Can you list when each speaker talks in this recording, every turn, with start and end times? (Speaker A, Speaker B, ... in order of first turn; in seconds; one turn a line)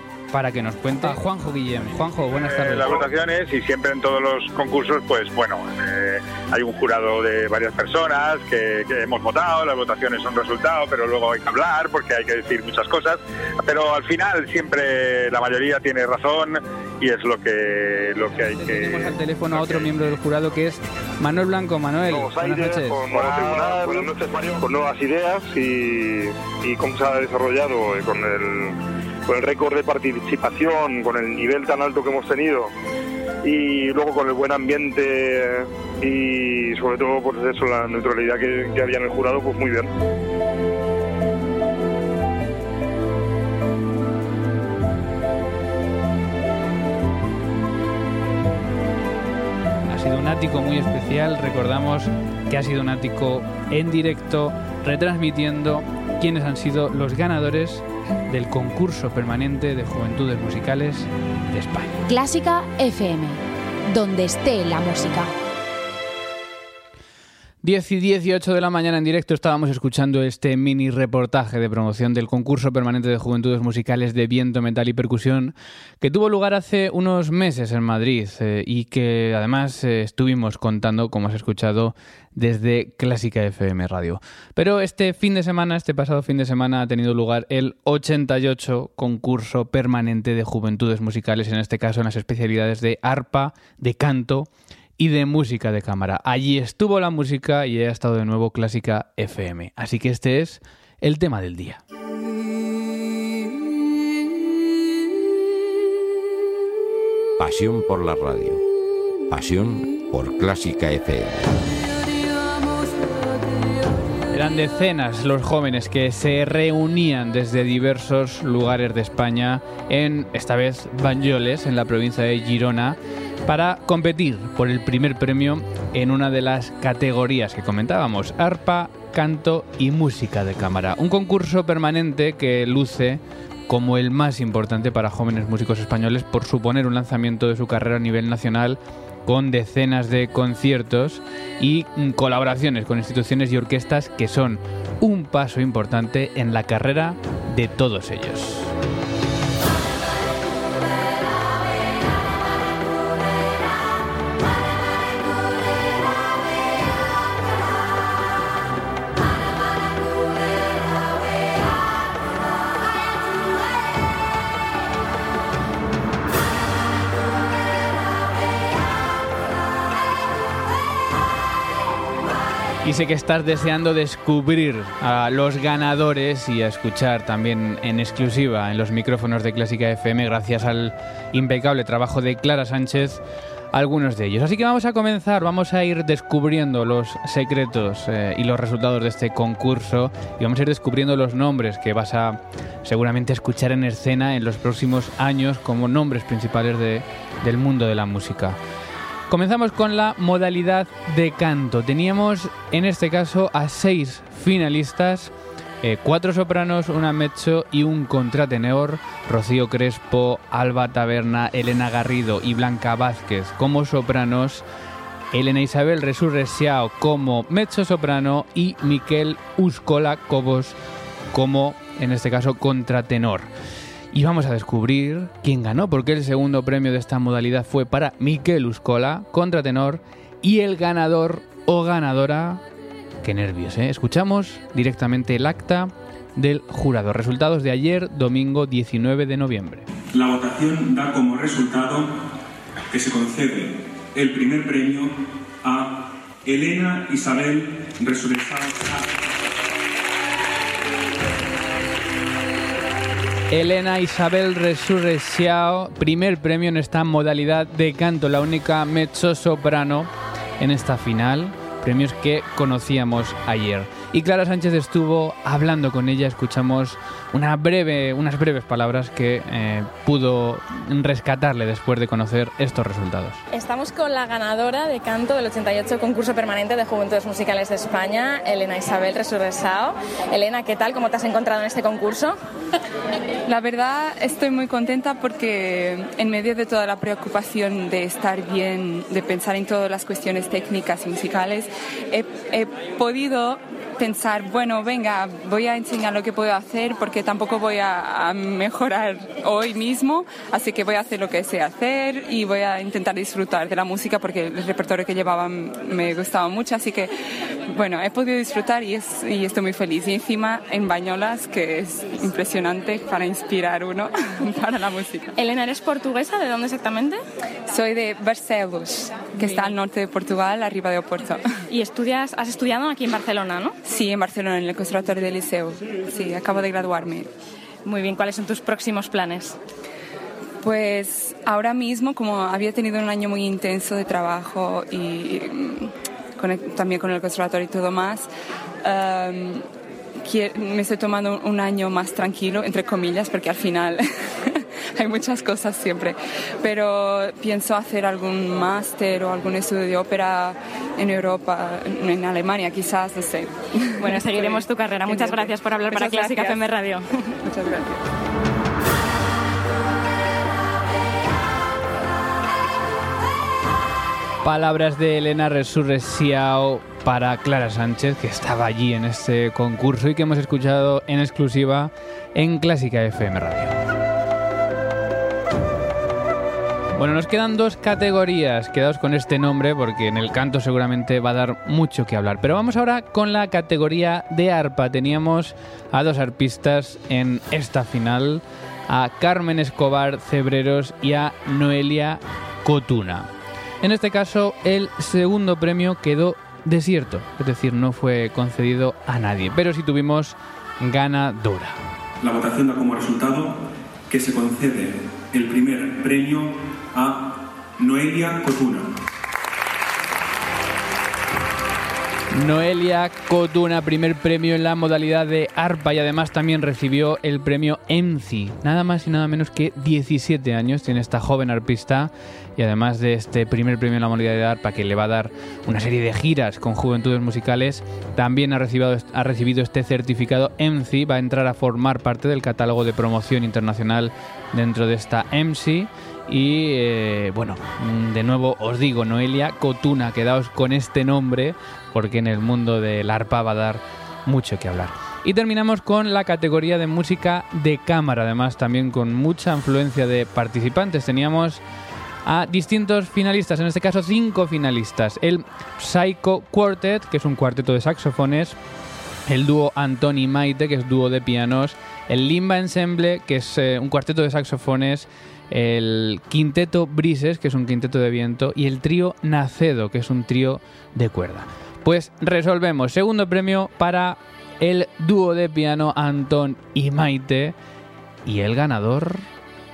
Speaker A: 0.3-3.1
Speaker B: 2.4-19.8
Speaker A: 18.4-23.0
Speaker C: 22.1-32.7
Speaker B: 23.1-24.1
Speaker C: 33.4-39.9
Speaker A: 49.9-62.0
Speaker D: 62.1-65.3
Speaker A: 67.6-101.8
Speaker E: 107.4-108.6
Speaker E: 109.3-111.5
Speaker A: 114.3-148.7
Speaker A: 172.8-183.2
Speaker A: 183.7-198.6
Speaker A: 199.3-214.7
Speaker A: 215.3-220.8
Speaker A: 221.3-223.5
Speaker A: 224.1-232.6
Speaker A: 233.2-239.9
Speaker F: 240.1-242.1
Speaker F: 242.9-249.3
Speaker A: 253.5-273.4
Speaker G: 273.5-282.4
Speaker H: 283.5-315.3
Speaker G: 315.4-317.2
Speaker H: 317.7-321.4
Speaker G: 321.7-323.8
Speaker H: 323.8-327.3
Speaker G: 327.9-329.6
Speaker H: 330.6-338.3
Speaker H: 338.8-339.6
Speaker H: 340.2-356.7
Speaker G: 354.0-357.3
Speaker H: 357.4-358.0
Speaker A: 364.4-373.8
Speaker A: 377.0-393.3
Speaker A: 393.8-401.8
Speaker F: 402.2-409.0
Speaker A: 412.3-451.6
Speaker A: 452.3-458.6
Speaker A: 459.3-477.6
Speaker A: 478.3-479.3